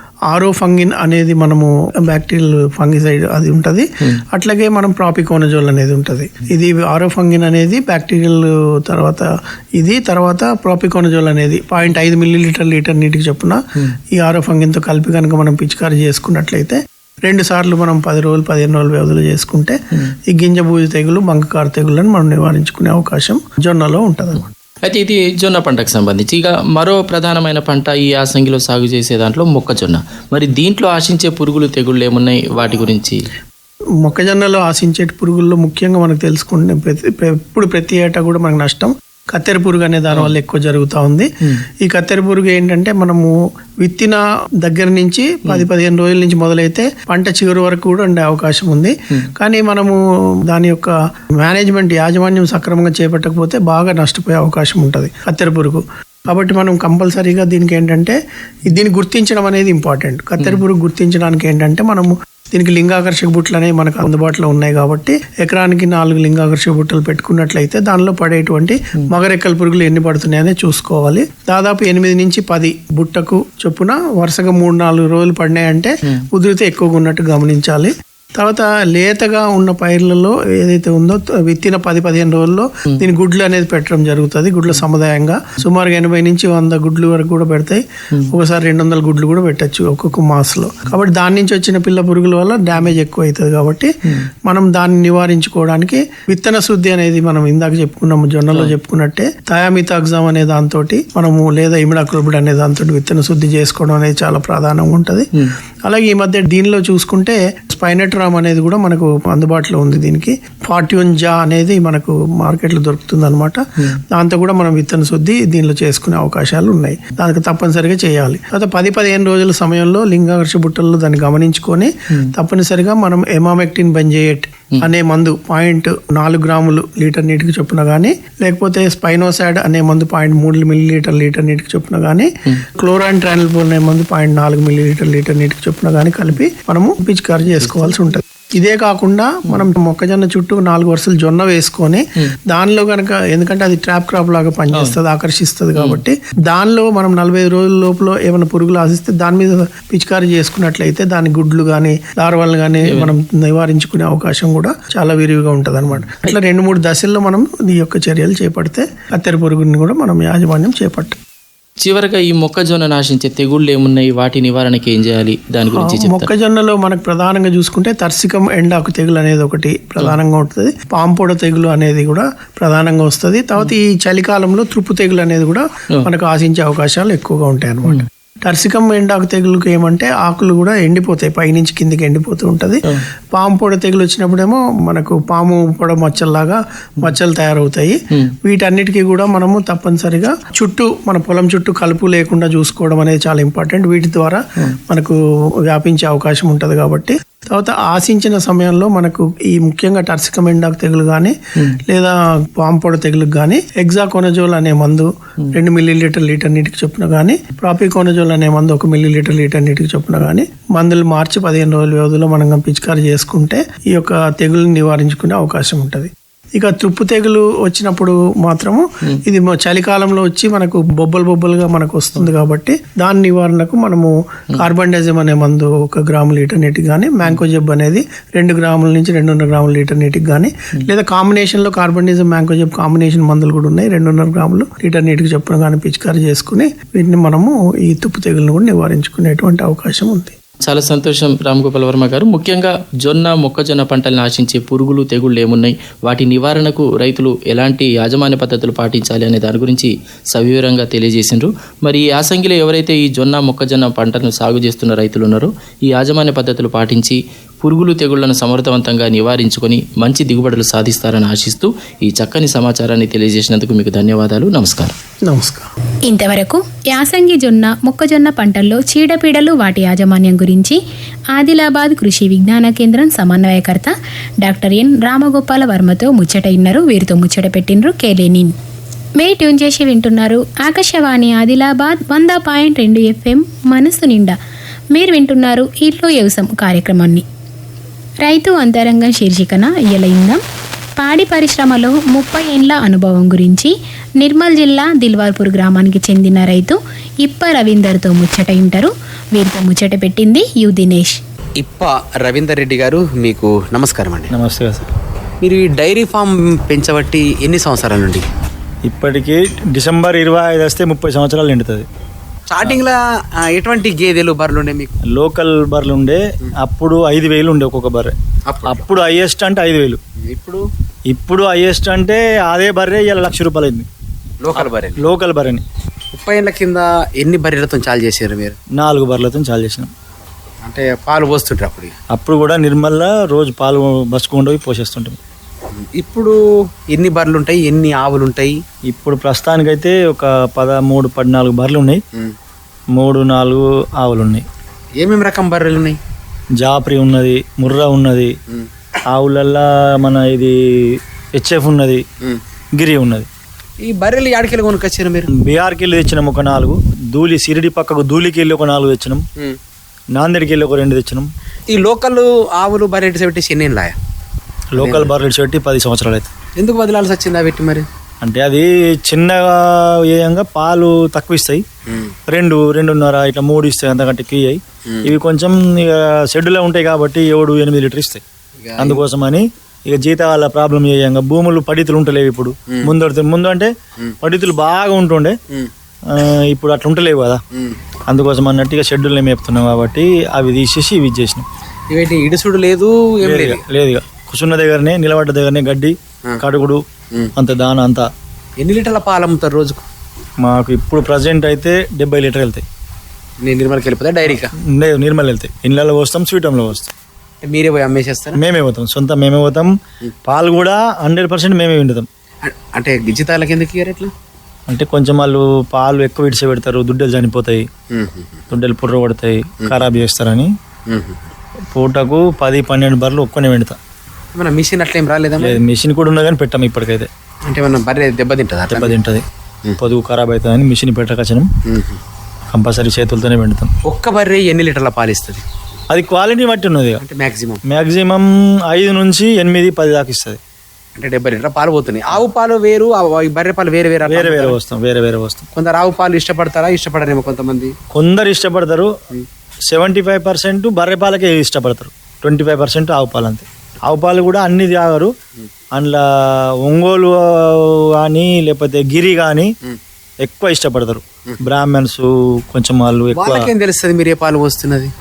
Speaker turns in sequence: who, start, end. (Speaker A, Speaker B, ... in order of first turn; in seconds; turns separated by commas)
Speaker A: 0.3-13.6, Speaker A: 14.1-24.5, Speaker B: 24.9-33.2, Speaker A: 34.0-93.9, Speaker B: 40.1-40.4, Speaker B: 60.4-60.6, Speaker A: 94.5-105.3, Speaker A: 105.8-161.2, Speaker B: 137.5-138.0, Speaker B: 152.9-153.1, Speaker B: 155.9-156.3, Speaker B: 161.8-166.3, Speaker A: 165.8-240.3, Speaker B: 240.7-264.9, Speaker A: 265.3-265.7, Speaker C: 266.1-270.8, Speaker C: 271.3-278.5, Speaker C: 279.2-284.4, Speaker C: 284.9-287.2, Speaker C: 288.2-290.4, Speaker C: 291.0-301.2, Speaker D: 301.6-304.3, Speaker E: 304.3-304.9, Speaker D: 305.4-308.2, Speaker E: 308.9-311.9, Speaker D: 312.5-314.9, Speaker E: 315.1-318.1, Speaker D: 318.5-318.9, Speaker E: 318.7-320.0, Speaker D: 320.2-320.6, Speaker E: 321.1-323.9, Speaker D: 324.4-325.1, Speaker E: 324.6-325.6, Speaker D: 326.1-328.6, Speaker E: 328.8-329.9, Speaker D: 330.6-331.9, Speaker E: 332.1-335.2, Speaker D: 335.8-336.4, Speaker D: 336.9-338.6, Speaker E: 338.9-342.0, Speaker E: 342.9-344.4, Speaker D: 345.0-346.0, Speaker E: 346.6-348.3, Speaker E: 349.1-352.0, Speaker E: 352.8-353.3, Speaker D: 353.8-355.3, Speaker E: 355.3-359.2, Speaker E: 360.1-361.3, Speaker D: 361.7-364.0, Speaker E: 364.7-366.3, Speaker D: 364.8-365.1, Speaker D: 366.6-367.9, Speaker E: 368.2-371.6, Speaker D: 371.9-372.2, Speaker E: 372.3-378.2, Speaker D: 374.9-375.1, Speaker D: 378.6-379.0, Speaker E: 378.8-385.4, Speaker E: 386.1-387.4, Speaker E: 388.1-391.4, Speaker D: 391.9-393.6, Speaker E: 393.2-396.8, Speaker E: 397.4-398.1, Speaker D: 398.6-399.9, Speaker E: 400.4-402.6, Speaker D: 403.4-404.5, Speaker E: 404.6-406.9, Speaker D: 407.4-408.4, Speaker E: 408.4-409.7, Speaker E: 410.3-412.1, Speaker D: 412.4-414.1, Speaker E: 414.7-417.7, Speaker D: 417.9-418.4, Speaker E: 418.5-420.5, Speaker D: 420.9-421.3, Speaker E: 421.7-423.8, Speaker D: 424.3-425.6, Speaker E: 425.4-427.1, Speaker D: 427.5-428.9, Speaker E: 428.7-429.2, Speaker E: 429.8-431.5, Speaker D: 431.7-432.0, Speaker E: 432.5-433.7, Speaker D: 433.9-435.4, Speaker E: 435.9-437.0, Speaker D: 437.0-437.6, Speaker E: 437.6-440.4, Speaker D: 441.0-444.6, Speaker E: 444.1-445.5, Speaker D: 445.6-447.7, Speaker E: 447.9-448.9, Speaker E: 449.7-455.1, Speaker E: 455.8-456.1, Speaker E: 456.6-459.6, Speaker E: 460.2-463.5, Speaker D: 463.1-464.9